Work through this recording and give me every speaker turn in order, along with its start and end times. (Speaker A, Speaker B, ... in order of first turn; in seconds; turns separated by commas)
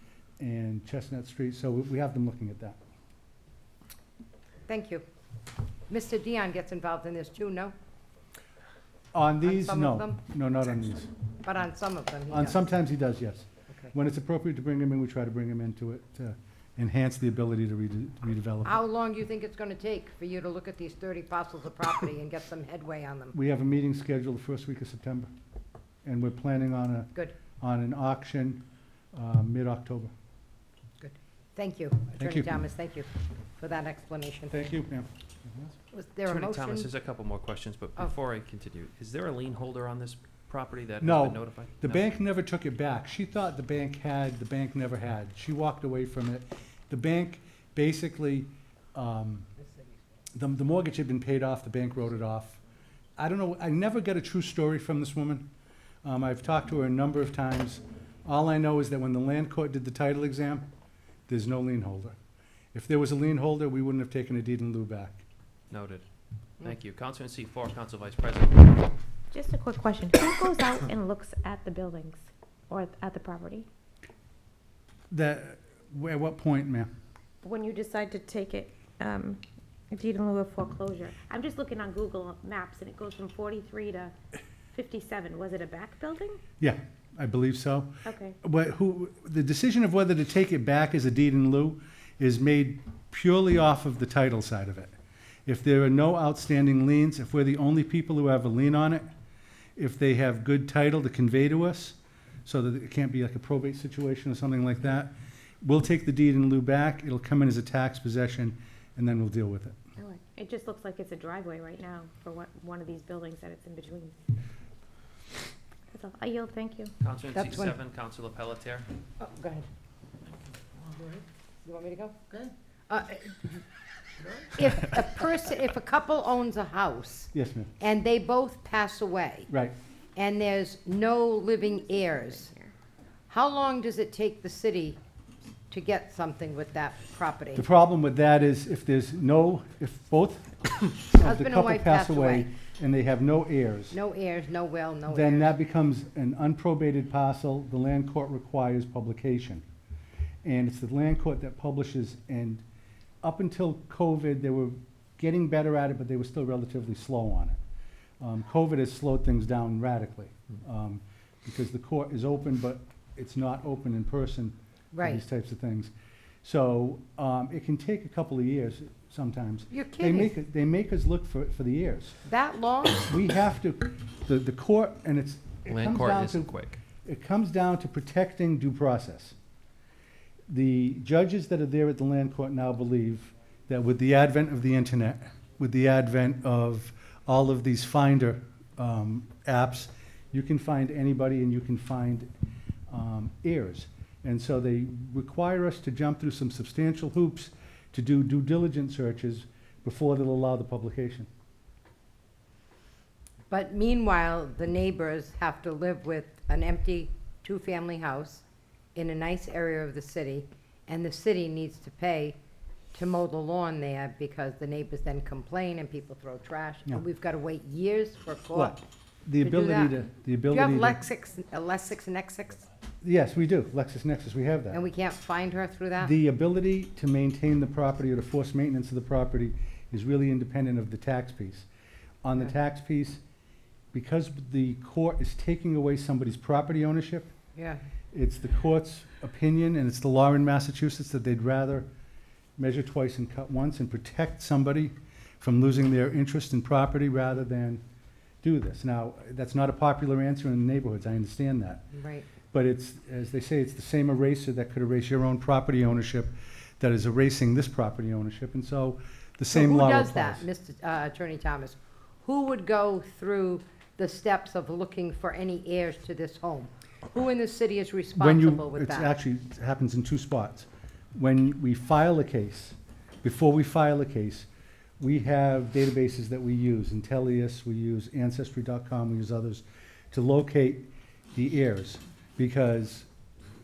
Speaker A: 0.4-2.8, Speaker B: 4.7-5.0, Speaker B: 5.9-7.7, Speaker A: 9.1-11.1, Speaker B: 9.4-10.2, Speaker B: 11.4-12.6, Speaker A: 12.3-18.8, Speaker B: 18.6-23.3, Speaker A: 23.3-25.3, Speaker A: 26.0-30.1, Speaker B: 31.0-34.6, Speaker A: 32.2-32.5, Speaker A: 34.5-35.8, Speaker B: 35.9-36.9, Speaker C: 36.2-42.0, Speaker A: 41.0-49.5, Speaker A: 50.4-52.6, Speaker A: 53.2-55.5, Speaker A: 56.0-60.7, Speaker A: 61.3-62.2, Speaker A: 62.7-65.2, Speaker C: 65.7-66.0, Speaker C: 66.6-68.9, Speaker D: 69.3-73.7, Speaker A: 75.1-76.9, Speaker D: 77.4-84.1, Speaker D: 84.7-86.4, Speaker A: 86.6-87.9, Speaker D: 88.0-88.4, Speaker A: 88.4-95.0, Speaker A: 95.5-99.1, Speaker A: 99.8-109.8, Speaker D: 110.0-114.2, Speaker D: 115.9-116.9, Speaker C: 117.0-118.9, Speaker B: 117.3-117.8, Speaker B: 119.2-119.7, Speaker B: 121.6-122.4, Speaker B: 122.9-123.6, Speaker B: 124.5-129.5, Speaker A: 127.3-127.7, Speaker A: 129.5-129.7, Speaker B: 130.2-132.5, Speaker D: 132.0-132.7, Speaker B: 133.3-135.0, Speaker B: 135.7-137.6, Speaker A: 137.6-144.0, Speaker B: 141.2-142.5, Speaker B: 143.9-145.5, Speaker A: 145.1-149.6, Speaker A: 150.4-152.6, Speaker A: 153.2-157.6, Speaker A: 158.2-165.9, Speaker B: 164.9-165.2, Speaker A: 166.4-172.2, Speaker B: 169.7-170.3, Speaker B: 172.2-173.1, Speaker A: 173.0-176.5, Speaker C: 175.7-176.8, Speaker A: 177.0-179.3, Speaker A: 180.5-192.3, Speaker A: 192.9-201.3, Speaker B: 203.5-208.4, Speaker B: 208.9-212.4, Speaker B: 212.9-218.8, Speaker A: 218.5-221.0, Speaker B: 219.4-222.6, Speaker A: 223.0-224.8, Speaker B: 224.7-226.1, Speaker A: 226.0-231.7, Speaker A: 232.2-233.2, Speaker A: 233.9-237.3, Speaker B: 237.6-237.8, Speaker A: 238.1-241.9, Speaker A: 242.6-247.8, Speaker A: 248.4-251.8, Speaker B: 251.9-252.3, Speaker A: 252.5-260.5, Speaker B: 259.5-269.1, Speaker A: 268.2-274.5, Speaker A: 275.0-283.1